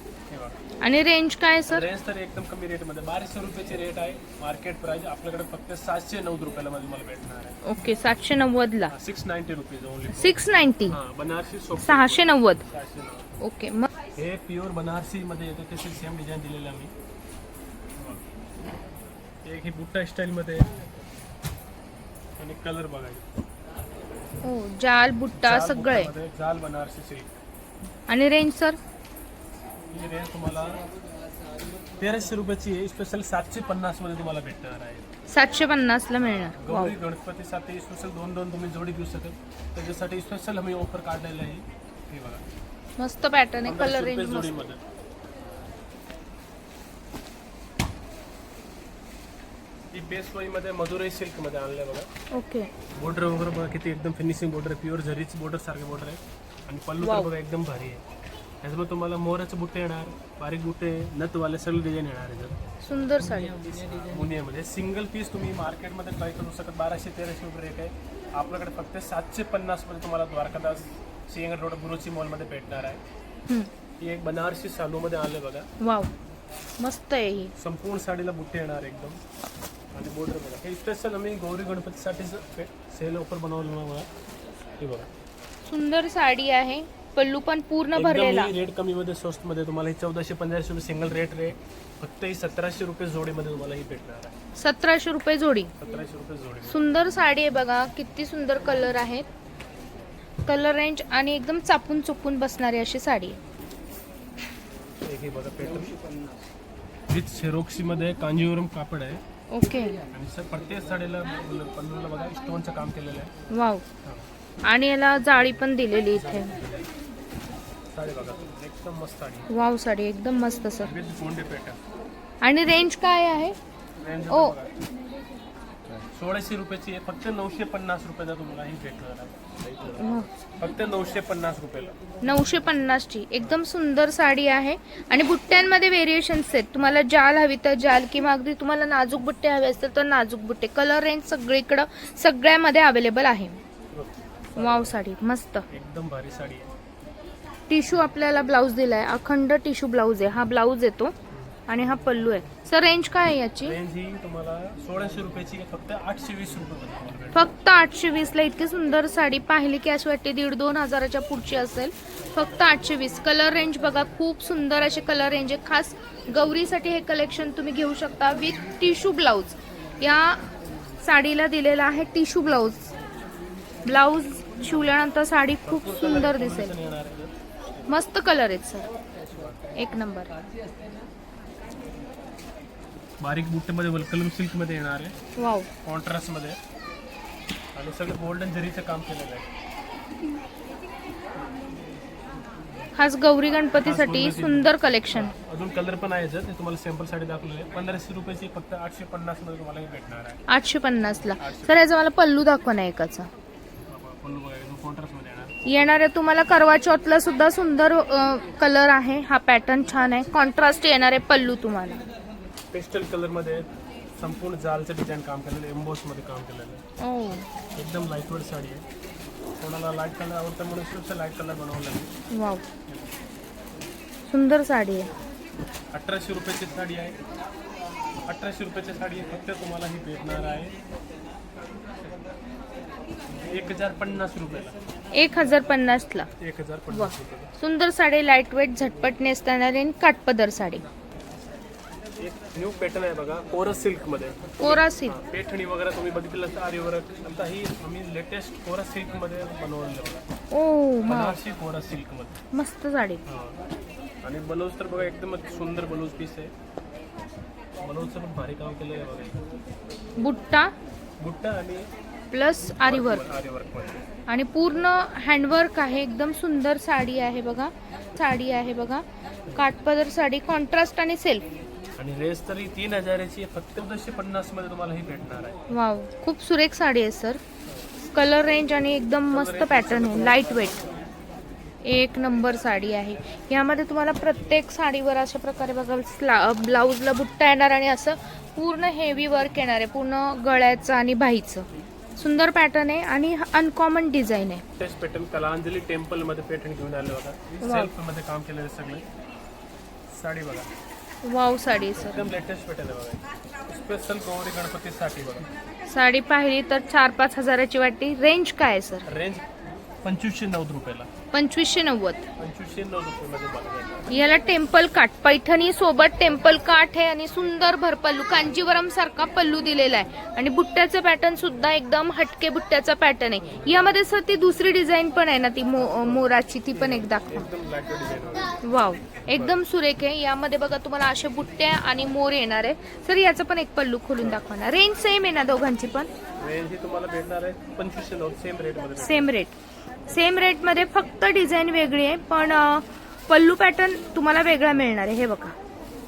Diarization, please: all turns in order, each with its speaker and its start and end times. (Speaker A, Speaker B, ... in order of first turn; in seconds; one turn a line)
Speaker A: 0.3-0.6
Speaker B: 0.8-1.9
Speaker A: 1.7-7.6
Speaker B: 7.6-8.9
Speaker A: 8.9-13.3
Speaker B: 10.2-11.0
Speaker B: 11.8-12.7
Speaker B: 13.4-13.9
Speaker A: 14.1-16.9
Speaker A: 18.0-18.2
Speaker A: 19.4-20.7
Speaker A: 22.4-23.3
Speaker B: 24.4-26.1
Speaker A: 25.4-27.3
Speaker B: 28.1-28.8
Speaker A: 29.9-30.8
Speaker A: 32.0-35.1
Speaker B: 35.3-36.9
Speaker A: 36.2-42.4
Speaker B: 43.0-44.5
Speaker A: 43.6-44.8
Speaker A: 49.9-52.1
Speaker B: 52.3-52.7
Speaker A: 53.0-58.0
Speaker B: 57.0-57.3
Speaker A: 58.6-62.6
Speaker B: 62.8-63.6
Speaker A: 63.2-73.0
Speaker A: 74.0-75.7
Speaker B: 75.8-76.1
Speaker B: 76.8-77.5
Speaker A: 77.6-79.2
Speaker A: 79.9-84.1
Speaker A: 84.8-85.1
Speaker B: 85.7-88.5
Speaker A: 88.0-94.3
Speaker B: 94.6-95.7
Speaker A: 95.8-96.8
Speaker B: 96.7-99.3
Speaker B: 100.5-103.4
Speaker A: 105.0-106.0
Speaker A: 107.1-109.2
Speaker B: 109.5-110.0
Speaker A: 110.1-113.3
Speaker B: 113.5-113.8
Speaker B: 114.7-116.5
Speaker A: 116.1-116.9
Speaker A: 117.9-119.5
Speaker B: 119.5-120.9
Speaker A: 120.8-121.8
Speaker B: 122.4-123.6
Speaker A: 124.0-124.8
Speaker B: 124.3-124.5
Speaker A: 126.0-132.0
Speaker B: 130.0-130.3
Speaker B: 132.2-143.6
Speaker A: 143.9-145.0
Speaker B: 144.6-145.7
Speaker A: 145.7-146.7
Speaker B: 147.7-151.1
Speaker B: 151.7-153.8
Speaker A: 153.6-157.5
Speaker B: 157.3-170.5
Speaker B: 171.0-172.8
Speaker B: 173.8-176.8
Speaker A: 175.6-178.0
Speaker B: 177.9-178.9
Speaker A: 179.3-179.6
Speaker B: 179.8-180.3
Speaker A: 183.2-185.2
Speaker B: 185.4-185.7
Speaker A: 185.8-186.6
Speaker A: 187.8-189.5
Speaker B: 192.9-195.3
Speaker A: 193.8-200.4
Speaker B: 200.5-203.3
Speaker A: 201.4-201.9
Speaker A: 203.9-205.9
Speaker B: 205.7-212.0
Speaker A: 212.7-216.8
Speaker B: 217.0-217.5
Speaker A: 217.8-218.8
Speaker A: 219.6-222.1
Speaker B: 222.3-222.7
Speaker A: 222.9-223.1
Speaker B: 224.3-225.1
Speaker A: 225.9-227.2
Speaker A: 228.3-230.8
Speaker A: 233.4-234.8
Speaker B: 235.1-236.3
Speaker A: 236.4-237.5
Speaker B: 236.9-240.8
Speaker A: 242.2-250.2
Speaker B: 244.6-245.2
Speaker B: 250.5-251.4
Speaker A: 251.0-252.4
Speaker B: 252.5-253.2
Speaker A: 253.3-253.6
Speaker A: 254.2-256.5
Speaker A: 257.8-259.4
Speaker B: 260.2-260.7
Speaker A: 261.2-261.9
Speaker B: 262.3-263.2
Speaker A: 262.8-264.0
Speaker B: 264.3-271.4
Speaker A: 272.0-275.6
Speaker B: 275.7-277.4
Speaker B: 278.1-280.8
Speaker A: 279.3-281.1
Speaker B: 281.9-291.7
Speaker B: 292.2-294.6
Speaker A: 294.8-299.1
Speaker B: 297.6-297.9
Speaker A: 300.1-300.7
Speaker B: 301.2-302.3
Speaker A: 302.0-305.5
Speaker B: 305.9-309.1
Speaker A: 309.1-309.4
Speaker A: 310.0-311.1
Speaker B: 311.3-312.2
Speaker A: 312.4-314.1
Speaker B: 314.1-327.5
Speaker A: 323.4-324.0
Speaker A: 325.8-328.6
Speaker B: 328.6-336.1
Speaker A: 329.2-329.6
Speaker A: 336.4-339.3
Speaker B: 339.0-339.6
Speaker B: 340.1-345.6